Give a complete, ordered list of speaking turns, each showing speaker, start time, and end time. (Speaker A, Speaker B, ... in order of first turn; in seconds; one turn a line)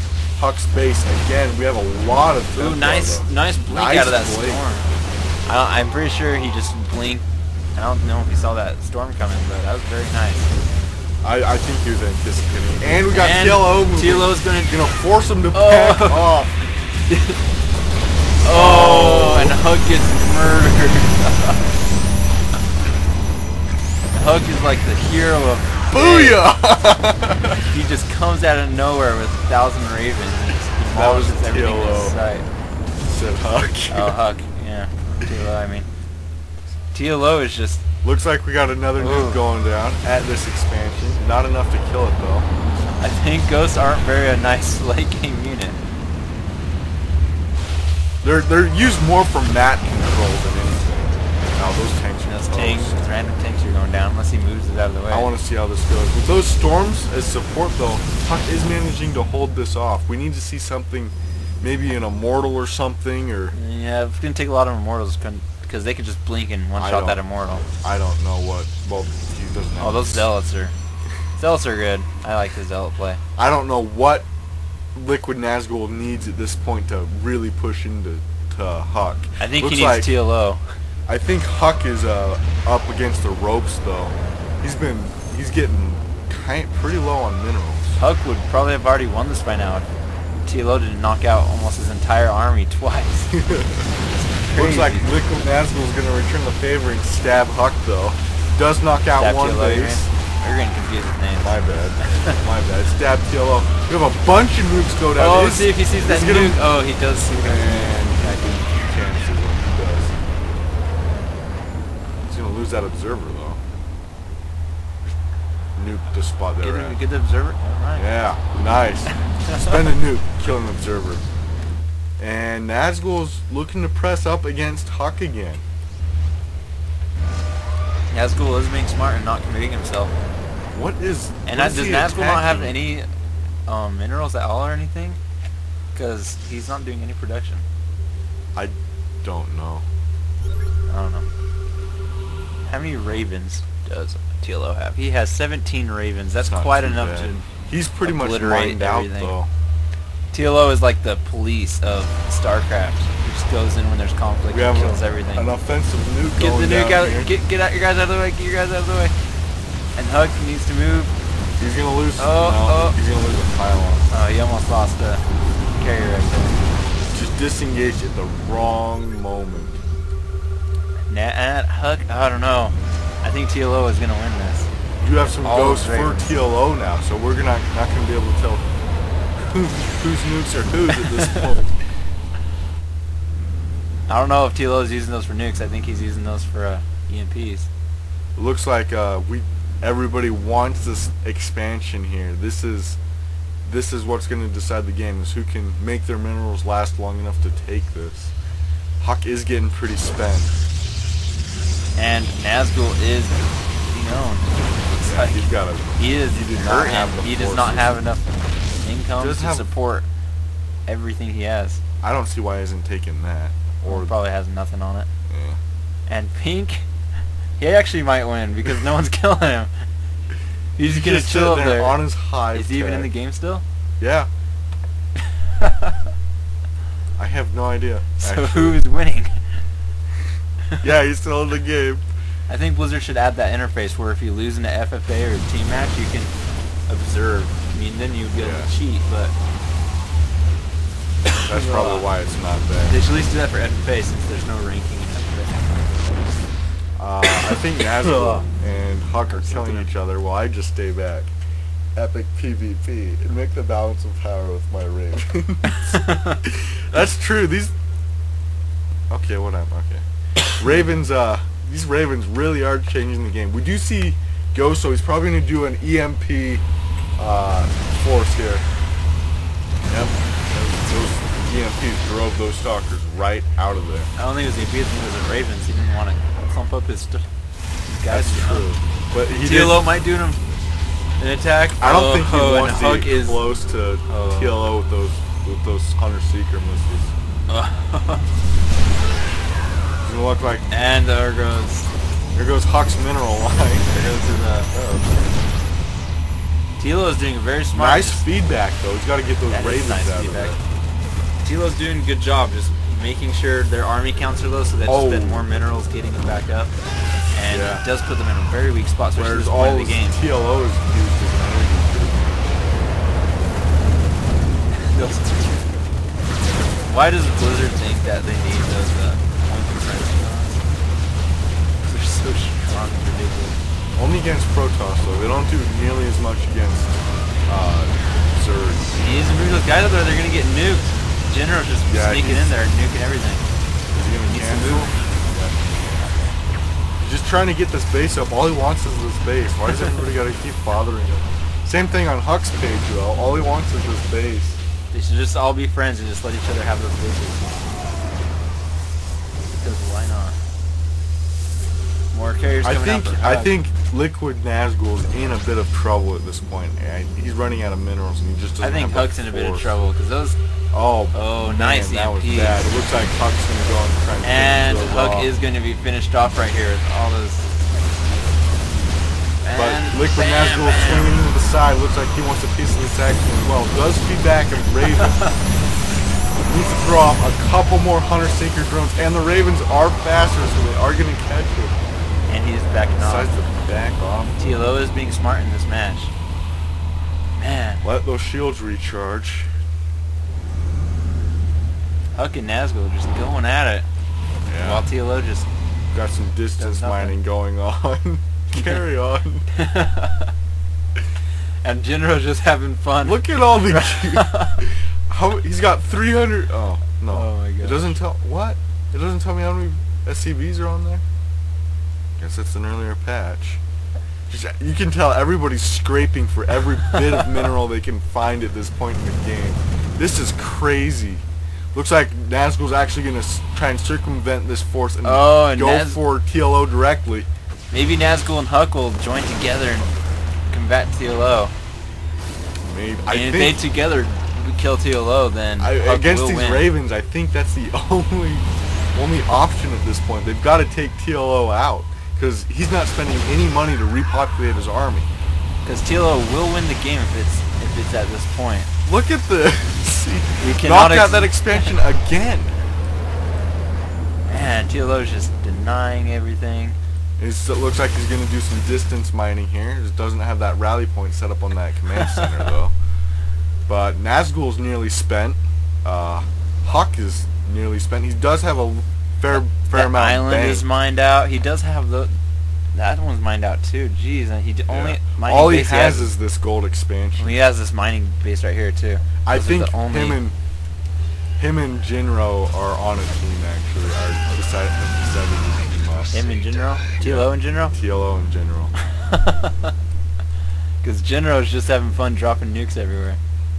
Speaker A: 0.4-4.6
Speaker B: 2.5-4.9
Speaker B: 5.5-7.2
Speaker B: 7.8-10.5
Speaker A: 11.2-16.6
Speaker B: 13.1-14.8
Speaker B: 15.5-16.3
Speaker B: 17.1-17.4
Speaker B: 18.4-21.8
Speaker A: 18.5-19.6
Speaker B: 24.1-26.4
Speaker A: 25.9-27.6
Speaker B: 27.7-32.5
Speaker A: 30.9-32.2
Speaker A: 33.0-34.2
Speaker B: 33.9-35.9
Speaker B: 36.9-37.8
Speaker A: 38.0-42.5
Speaker B: 39.0-39.4
Speaker B: 43.0-45.8
Speaker A: 48.2-53.0
Speaker B: 52.3-55.3
Speaker A: 55.1-63.5
Speaker B: 63.5-67.7
Speaker A: 66.8-67.2
Speaker A: 67.8-70.3
Speaker B: 69.8-70.7
Speaker B: 71.4-73.2
Speaker A: 73.4-74.3
Speaker A: 75.0-80.1
Speaker B: 79.4-80.6
Speaker A: 81.1-88.0
Speaker B: 88.0-89.9
Speaker B: 90.5-93.3
Speaker A: 93.3-93.8
Speaker B: 94.1-95.1
Speaker A: 94.5-100.1
Speaker B: 99.2-102.4
Speaker A: 101.4-106.6
Speaker B: 105.2-108.6
Speaker A: 107.4-110.2
Speaker A: 112.3-113.6
Speaker A: 115.8-117.0
Speaker B: 116.6-118.1
Speaker A: 118.0-121.2
Speaker A: 122.2-125.6
Speaker B: 128.1-130.1
Speaker A: 130.7-132.8
Speaker B: 131.5-133.1
Speaker B: 133.7-135.2
Speaker B: 135.9-137.6
Speaker A: 138.6-139.8
Speaker B: 140.9-141.2
Speaker B: 142.7-147.4
Speaker A: 146.4-149.5
Speaker B: 148.1-149.3
Speaker B: 150.3-155.5
Speaker A: 154.5-157.3
Speaker B: 156.3-159.1
Speaker B: 160.0-161.1
Speaker A: 161.6-164.0
Speaker B: 162.2-163.0
Speaker B: 164.1-165.2
Speaker B: 165.8-166.7
Speaker A: 167.1-169.8
Speaker B: 171.1-174.7
Speaker A: 175.0-178.7
Speaker B: 175.4-176.3
Speaker A: 179.4-181.7
Speaker B: 180.9-181.5
Speaker B: 184.1-187.7
Speaker A: 188.4-193.0
Speaker A: 193.7-198.3
Speaker A: 199.0-200.5
Speaker B: 202.0-205.4
Speaker A: 205.0-207.9
Speaker B: 206.0-210.1
Speaker A: 209.2-209.7
Speaker B: 210.9-211.8
Speaker A: 212.0-214.2
Speaker B: 213.9-215.1
Speaker A: 215.3-215.6
Speaker B: 216.1-216.9
Speaker B: 217.6-219.7
Speaker B: 220.8-223.6
Speaker A: 220.8-223.1
Speaker A: 224.0-224.3
Speaker B: 225.2-226.0
Speaker A: 227.2-228.8
Speaker B: 228.2-229.4
Speaker A: 230.8-232.1
Speaker B: 232.5-236.3
Speaker B: 236.9-239.3
Speaker A: 238.4-238.7
Speaker A: 241.3-243.0
Speaker B: 241.3-242.1
Speaker B: 242.9-246.3
Speaker A: 247.0-251.3
Speaker B: 247.2-248.5
Speaker B: 249.3-249.9
Speaker A: 251.9-257.7
Speaker B: 255.7-256.4
Speaker A: 259.1-260.0
Speaker A: 260.6-266.6
Speaker A: 267.2-268.7
Speaker A: 269.9-274.1
Speaker B: 274.2-277.2
Speaker B: 277.9-278.7
Speaker A: 278.1-279.9
Speaker B: 279.4-280.4
Speaker B: 281.2-283.4
Speaker A: 281.8-287.1
Speaker B: 284.1-284.5
Speaker B: 287.5-288.2
Speaker A: 290.0-290.6
Speaker B: 290.7-291.9
Speaker A: 292.4-294.1
Speaker B: 293.9-295.1
Speaker B: 296.8-298.2
Speaker A: 297.7-300.6
Speaker B: 299.5-300.6
Speaker B: 301.4-306.7
Speaker A: 304.9-305.5
Speaker B: 307.3-310.2
Speaker A: 307.5-307.8
Speaker A: 309.1-312.5
Speaker B: 314.7-315.8
Speaker B: 316.8-320.6
Speaker B: 321.9-323.6
Speaker A: 324.0-326.9
Speaker A: 327.5-328.9
Speaker B: 328.9-333.4
Speaker A: 331.9-332.6
Speaker A: 333.9-335.6
Speaker B: 334.3-334.9
Speaker A: 337.0-344.6
Speaker B: 344.9-347.7
Speaker B: 349.6-350.4
Speaker B: 352.1-353.5
Speaker A: 352.6-359.8
Speaker B: 358.6-360.4
Speaker A: 360.7-365.3
Speaker B: 361.1-362.6
Speaker B: 364.2-367.5
Speaker B: 369.4-371.2
Speaker A: 369.5-375.2
Speaker B: 375.0-375.4
Speaker A: 376.4-381.9
Speaker B: 382.3-383.3
Speaker A: 383.0-384.6
Speaker B: 384.4-386.1
Speaker B: 387.4-387.8
Speaker A: 387.8-389.5
Speaker B: 392.2-393.9
Speaker A: 394.5-394.9
Speaker B: 394.6-395.5
Speaker A: 395.9-399.4
Speaker B: 396.6-397.2
Speaker B: 398.6-398.8
Speaker B: 399.5-400.3
Speaker B: 401.6-404.6
Speaker A: 403.0-411.0
Speaker B: 407.1-407.9
Speaker A: 412.2-413.6
Speaker A: 414.3-427.3
Speaker B: 425.0-426.0
Speaker B: 427.7-429.9
Speaker B: 430.5-431.5
Speaker A: 432.6-433.6
Speaker B: 433.1-436.7
Speaker A: 435.6-445.1
Speaker B: 445.6-448.7
Speaker A: 448.9-452.6
Speaker B: 450.4-451.8
Speaker B: 454.3-456.8
Speaker A: 457.2-462.7
Speaker B: 461.9-462.4
Speaker A: 463.7-470.7
Speaker B: 469.3-472.2
Speaker B: 472.7-476.1
Speaker A: 474.7-477.4
Speaker B: 477.2-480.2
Speaker A: 479.3-480.4
Speaker A: 481.4-486.4
Speaker B: 486.1-487.7
Speaker A: 487.0-488.7
Speaker B: 488.9-489.7
Speaker B: 490.8-493.2